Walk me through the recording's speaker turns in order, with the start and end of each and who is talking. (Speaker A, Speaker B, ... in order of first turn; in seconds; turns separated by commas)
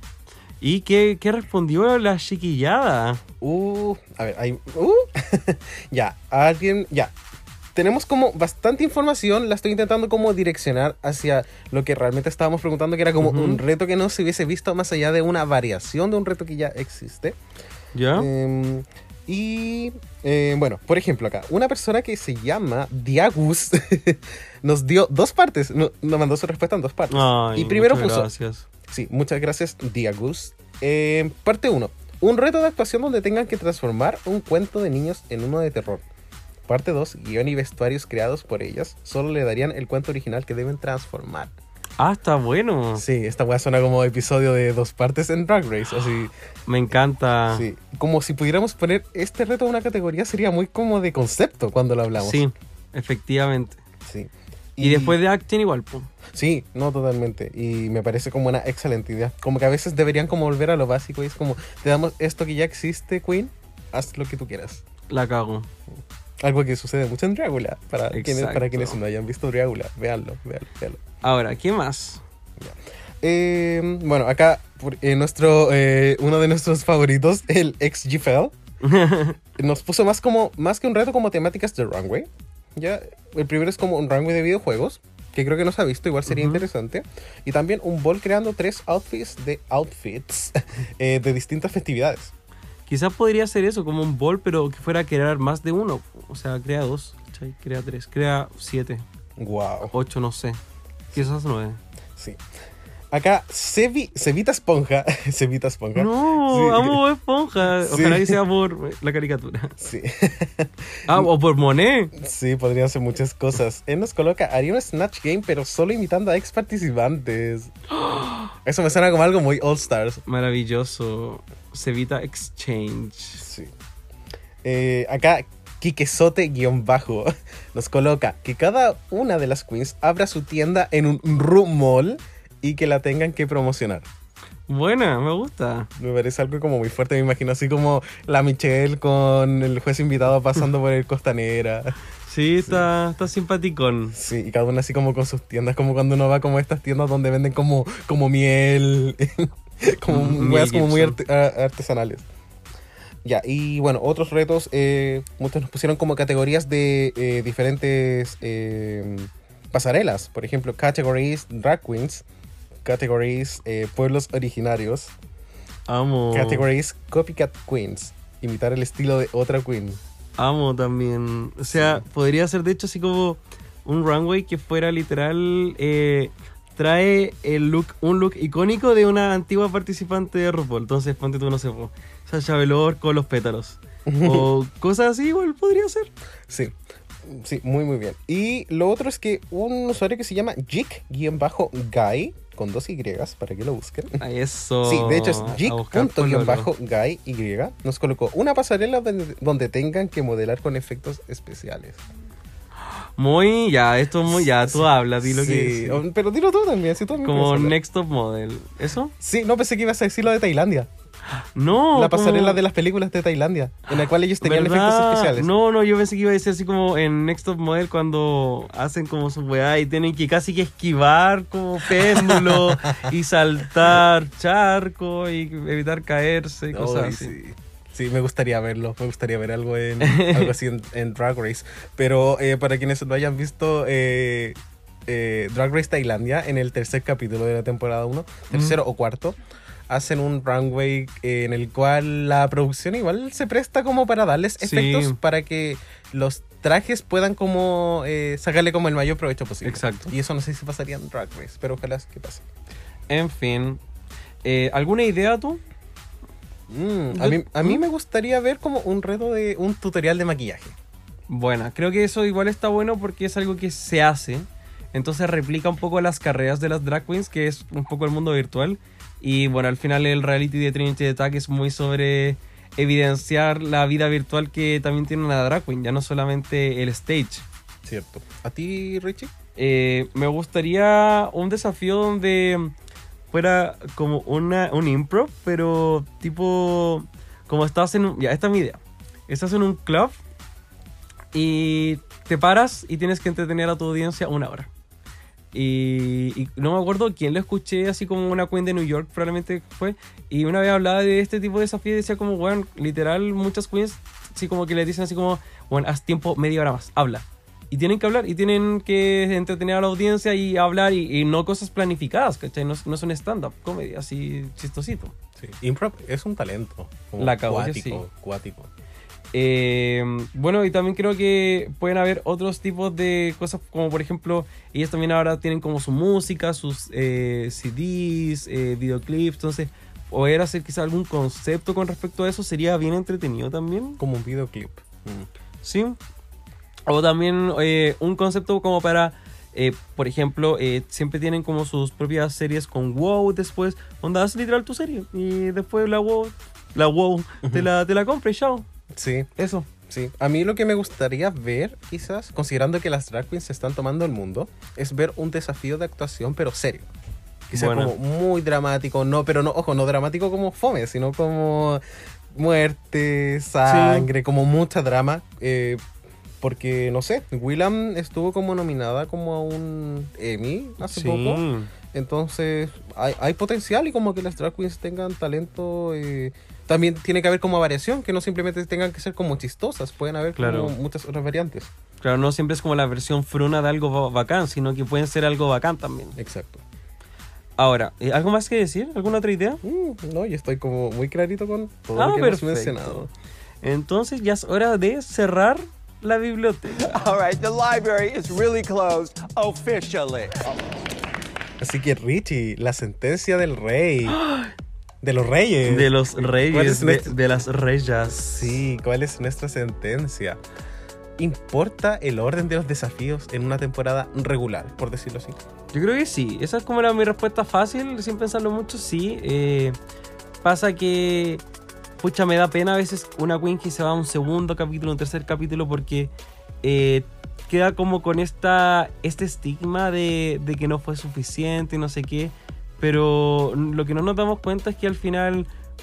Speaker A: 0.6-3.2, Speaker B: 3.4-7.1, Speaker B: 7.7-17.4, Speaker A: 13.2-13.6, Speaker A: 17.9-18.3, Speaker B: 18.1-28.3, Speaker A: 27.1-28.6, Speaker B: 28.9-36.0, Speaker B: 36.7-41.5, Speaker A: 42.0-43.0, Speaker B: 43.0-46.3, Speaker A: 46.7-47.6, Speaker B: 47.5-52.4, Speaker A: 52.2-53.8, Speaker B: 54.0-55.2, Speaker A: 54.8-56.1, Speaker B: 56.3-64.8, Speaker A: 65.1-65.7, Speaker B: 66.4-71.0, Speaker A: 68.1-69.0, Speaker A: 71.2-72.2, Speaker B: 72.6-78.5, Speaker A: 78.8-79.4, Speaker B: 79.6-92.3, Speaker A: 86.3-86.6, Speaker A: 92.9-99.0, Speaker B: 99.4-99.9, Speaker A: 99.9-100.6, Speaker A: 101.1-101.8, Speaker B: 102.2-102.4, Speaker B: 103.1-107.0, Speaker A: 105.9-109.8, Speaker B: 107.8-108.4, Speaker B: 109.8-111.3, Speaker A: 111.1-112.1, Speaker B: 112.1-117.7, Speaker A: 118.0-118.5, Speaker B: 118.5-120.2, Speaker A: 120.2-123.4, Speaker B: 123.4-123.7, Speaker B: 124.6-134.1, Speaker A: 134.7-135.9, Speaker B: 136.0-141.9, Speaker A: 142.3-144.1, Speaker B: 144.1-152.2, Speaker A: 150.1-151.2, Speaker B: 153.2-162.2, Speaker B: 162.8-165.1, Speaker A: 165.9-166.7, Speaker B: 166.3-170.0, Speaker A: 170.4-186.1, Speaker B: 171.7-172.0, Speaker B: 184.1-184.5, Speaker B: 186.5-194.2, Speaker A: 194.2-196.7, Speaker B: 194.8-202.0, Speaker A: 203.2-206.0, Speaker B: 204.2-207.7, Speaker A: 207.2-209.1, Speaker B: 209.2-210.9, Speaker A: 211.3-212.6, Speaker B: 211.9-215.5, Speaker A: 214.4-227.3, Speaker B: 221.9-223.0, Speaker B: 226.7-239.4, Speaker A: 230.0-230.5, Speaker A: 238.5-238.8, Speaker B: 239.9-252.4, Speaker A: 244.6-245.2, Speaker A: 249.6-250.1, Speaker A: 253.1-253.8, Speaker A: 254.4-255.6, Speaker B: 256.7-260.8, Speaker A: 257.1-257.8, Speaker A: 261.3-277.4, Speaker B: 277.9-279.3, Speaker A: 279.6-282.7, Speaker A: 283.3-290.2, Speaker A: 291.3-294.7, Speaker A: 295.5-315.1, Speaker B: 315.4-318.7, Speaker A: 317.2-318.0, Speaker A: 319.3-334.0, Speaker B: 334.0-335.3, Speaker A: 335.6-336.0, Speaker A: 336.9-348.6, Speaker B: 348.9-356.9, Speaker B: 357.5-365.8, Speaker A: 357.5-357.9, Speaker A: 363.6-364.1, Speaker B: 366.4-381.7, Speaker A: 370.8-371.7, Speaker A: 380.4-380.7, Speaker A: 382.0-386.1, Speaker B: 386.1-386.6, Speaker A: 387.6-389.6, Speaker B: 389.6-393.1, Speaker A: 391.9-393.0, Speaker A: 393.6-397.0, Speaker C: 396.8-400.6, Speaker B: 401.6-404.2, Speaker A: 404.1-404.5, Speaker B: 405.0-407.3, Speaker A: 405.6-408.6, Speaker B: 408.1-410.4, Speaker B: 411.2-415.4, Speaker A: 415.7-419.8, Speaker A: 420.4-421.4, Speaker A: 422.0-426.1, Speaker A: 426.6-435.5